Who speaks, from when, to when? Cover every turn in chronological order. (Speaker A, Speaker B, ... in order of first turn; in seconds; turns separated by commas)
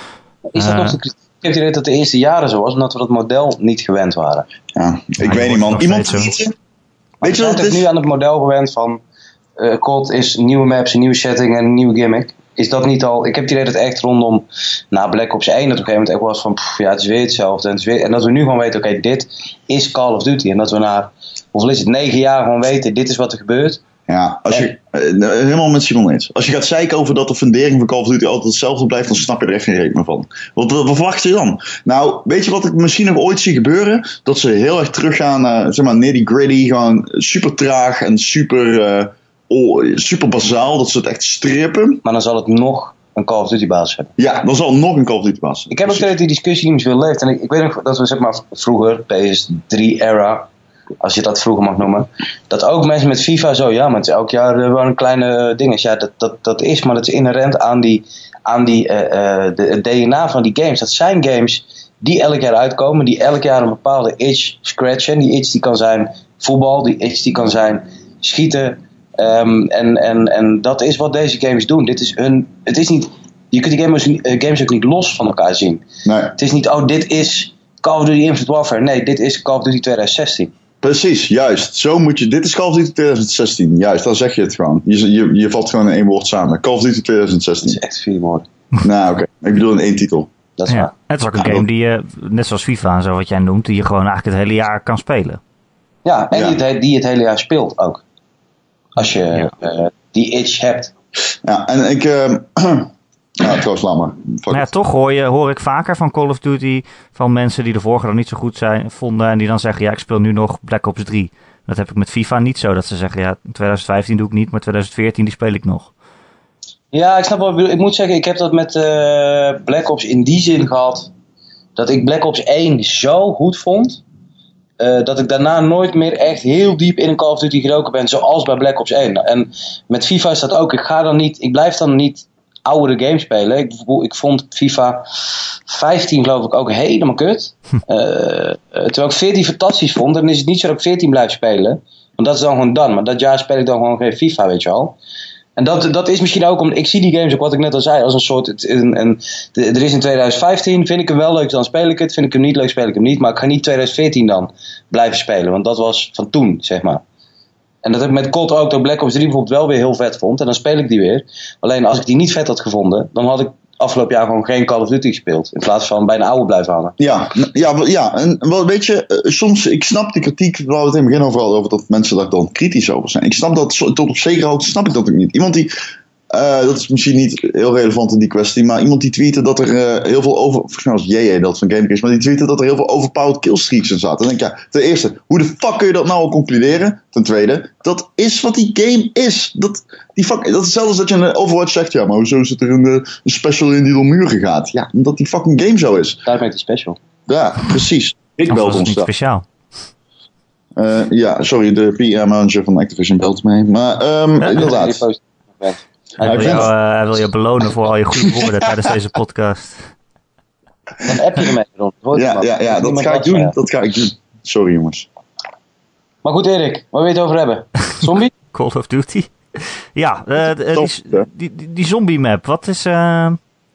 Speaker A: 0.5-4.5, Speaker B: 0.6-1.0, Speaker C: 4.8-6.5, Speaker B: 5.2-6.3, Speaker A: 7.2-9.0, Speaker C: 7.2-7.9, Speaker A: 9.6-23.8, Speaker C: 24.1-42.0, Speaker A: 42.0-44.1, Speaker C: 44.2-46.1, Speaker A: 45.7-50.5, Speaker A: 51.0-75.8, Speaker C: 76.0-76.3, Speaker A: 76.3-80.5, Speaker C: 80.8-87.8, Speaker A: 87.6-88.5, Speaker C: 88.8-90.3, Speaker A: 90.6-90.9, Speaker B: 90.7-95.4, Speaker C: 91.4-91.7, Speaker A: 96.0-98.0, Speaker C: 96.3-96.6, Speaker A: 99.0-100.9, Speaker C: 101.4-104.7, Speaker B: 104.5-115.9, Speaker A: 116.9-121.1, Speaker A: 121.8-124.0, Speaker A: 124.8-135.1, Speaker A: 135.7-145.0, Speaker A: 145.6-157.0, Speaker A: 157.8-167.0, Speaker C: 167.0-175.7, Speaker C: 176.3-196.2, Speaker A: 196.2-197.0, Speaker C: 197.3-199.1, Speaker B: 198.5-199.5, Speaker C: 200.8-205.0, Speaker A: 204.4-206.7, Speaker C: 206.2-206.7, Speaker B: 206.2-209.8, Speaker C: 208.3-208.9, Speaker A: 211.0-213.6, Speaker C: 212.1-215.1, Speaker A: 216.2-218.3, Speaker B: 218.5-223.4, Speaker C: 220.7-221.3